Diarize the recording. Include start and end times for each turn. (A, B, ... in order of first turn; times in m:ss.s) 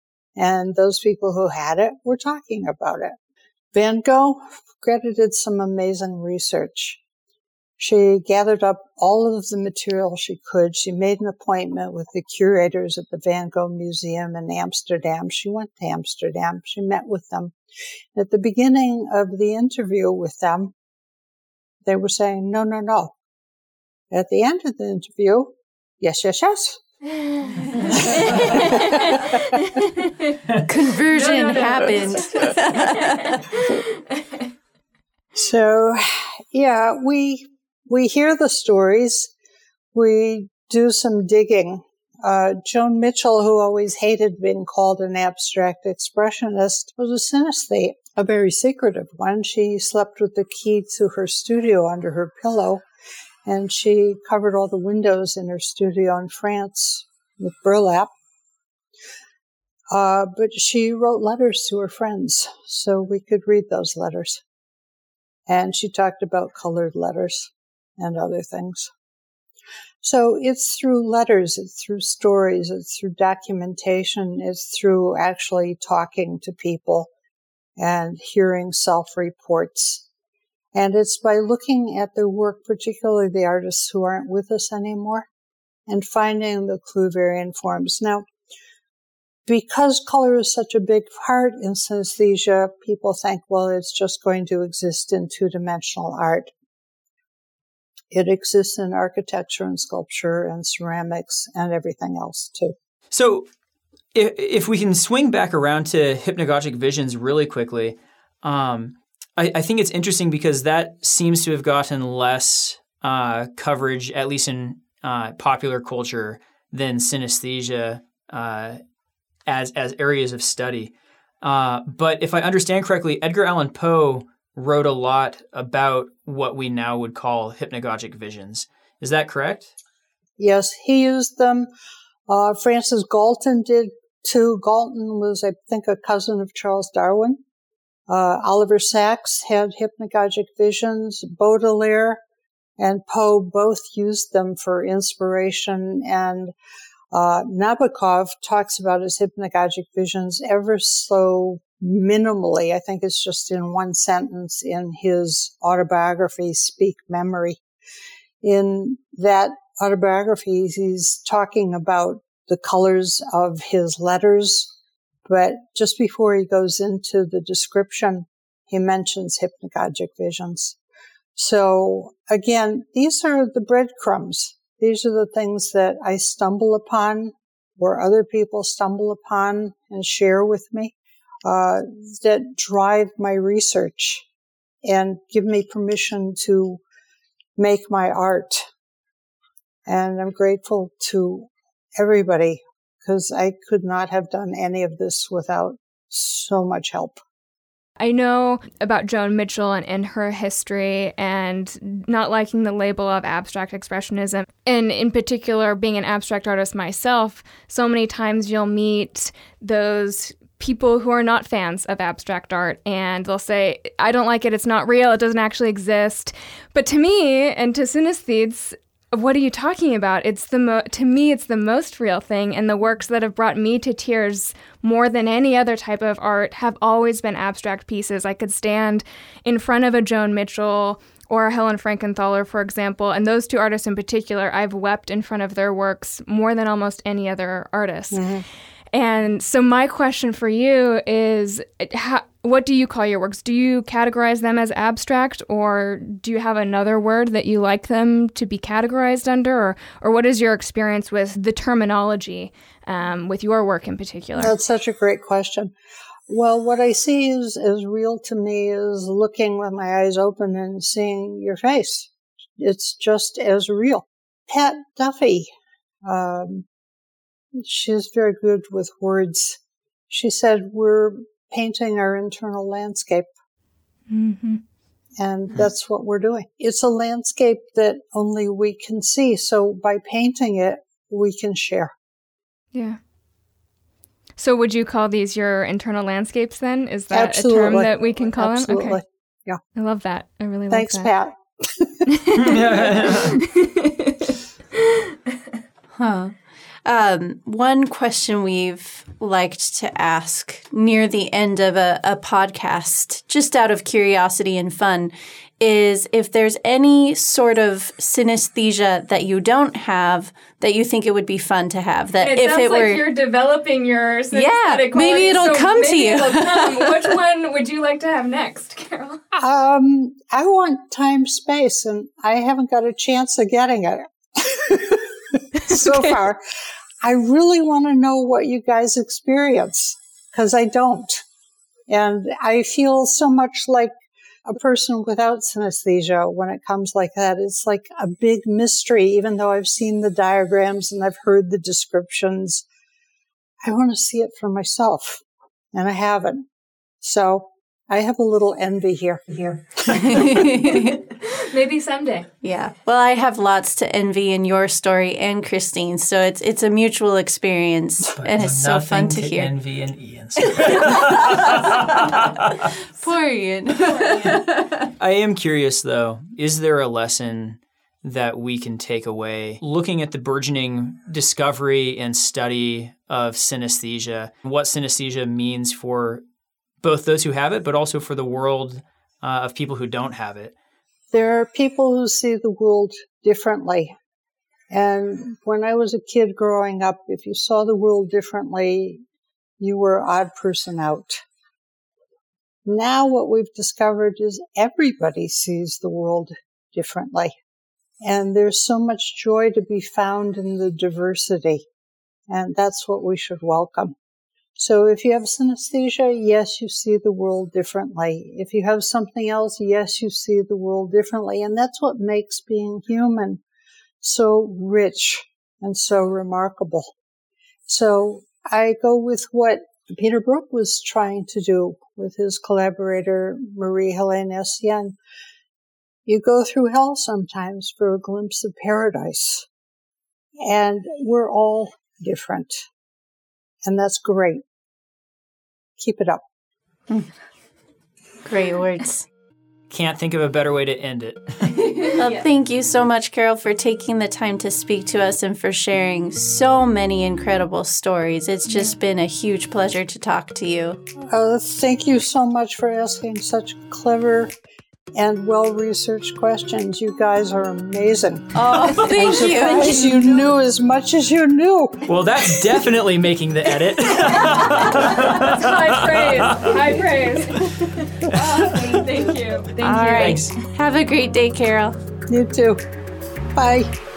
0:00.4-0:03.1 A
0:03.7-0:07.0 A
0:07.8-0:17.5 A
0:18.1-0:20.7 A
0:21.8-0:23.1 A
0:24.1-0:26.8 A
0:27.2-0:27.5 B
0:27.9-0:29.6 A
0:28.0-0:30.3 B
0:30.6-0:33.6 C
0:31.1-0:34.4 B
0:35.3-0:39.3 A
0:39.9-0:52.8 A
0:53.4-0:58.1 A
0:59.9-1:04.4 A
1:05.5-1:08.9 A
1:10.0-1:17.1 A
1:17.8-1:20.0 A
1:20.7-1:25.3 A
1:25.9-1:28.2 A
1:29.5-1:36.5 A
1:38.1-1:42.7 A
1:43.1-1:43.5 D
1:44.1-1:58.8 D
1:59.5-2:09.7 D
2:10.4-2:11.7 A
2:12.3-2:17.4 A
2:18.1-2:22.2 A
2:22.8-2:26.5 A
2:27.1-2:37.6 A
2:38.4-2:44.7 A
2:45.2-2:50.8 A
2:51.4-3:04.2 A
3:04.8-3:06.8 A
3:07.6-3:08.7 A
3:09.8-3:17.2 A
3:18.0-3:58.2 B
3:58.1-3:58.4 A
3:58.9-4:14.5 B
4:14.4-4:15.7 A
4:16.3-4:25.5 A
4:26.0-4:26.6 A
4:27.5-4:33.3 A
4:34.1-4:34.6 B
4:35.2-4:41.9 A
4:42.7-4:43.0 B
4:44.4-4:49.0 B
4:47.1-4:49.6 A
4:49.8-4:51.1 B
4:50.7-4:52.0 A
4:52.1-4:55.4 B
4:52.4-4:53.4 D
4:56.0-5:13.0 C
5:12.2-5:19.2 B
5:14.3-5:17.1 C
5:19.3-5:26.4 A
5:27.0-5:31.2 A
5:31.9-5:33.9 A
5:34.4-5:42.6 A
5:43.6-5:45.2 A
5:45.7-5:46.5 A
5:47.0-5:50.4 A
5:49.9-5:51.0 C
5:50.7-5:52.3 B
5:52.4-5:59.5 C
5:58.1-6:02.6 D
6:00.6-6:01.7 C
6:03.0-6:04.9 C
6:03.9-6:04.3 B
6:05.0-6:16.2 D
6:16.8-6:20.5 D
6:21.1-6:23.9 A
6:24.7-6:29.0 A
6:29.6-6:31.2 A
6:32.6-6:37.3 A
6:38.0-6:41.6 A
6:42.3-6:43.9 A
6:44.6-6:53.4 A
6:54.0-6:56.9 A
6:57.7-7:05.0 A
7:06.0-7:09.5 A
7:10.4-7:12.6 A
7:13.6-7:14.4 A
7:15.8-7:16.2 A
7:18.2-7:19.1 C
7:19.7-7:21.7 D
7:21.6-7:22.2 B
7:21.9-7:30.8 C
7:28.5-7:28.7 B
7:31.1-7:34.3 A
7:34.9-7:42.4 A
7:38.3-7:40.1 C
7:39.1-7:40.1 B
7:41.9-7:46.8 D
7:44.0-7:50.3 B
7:48.1-7:48.8 D
7:49.6-7:50.4 D
7:49.6-7:51.8 C
7:52.1-7:52.6 A
7:53.3-7:53.7 A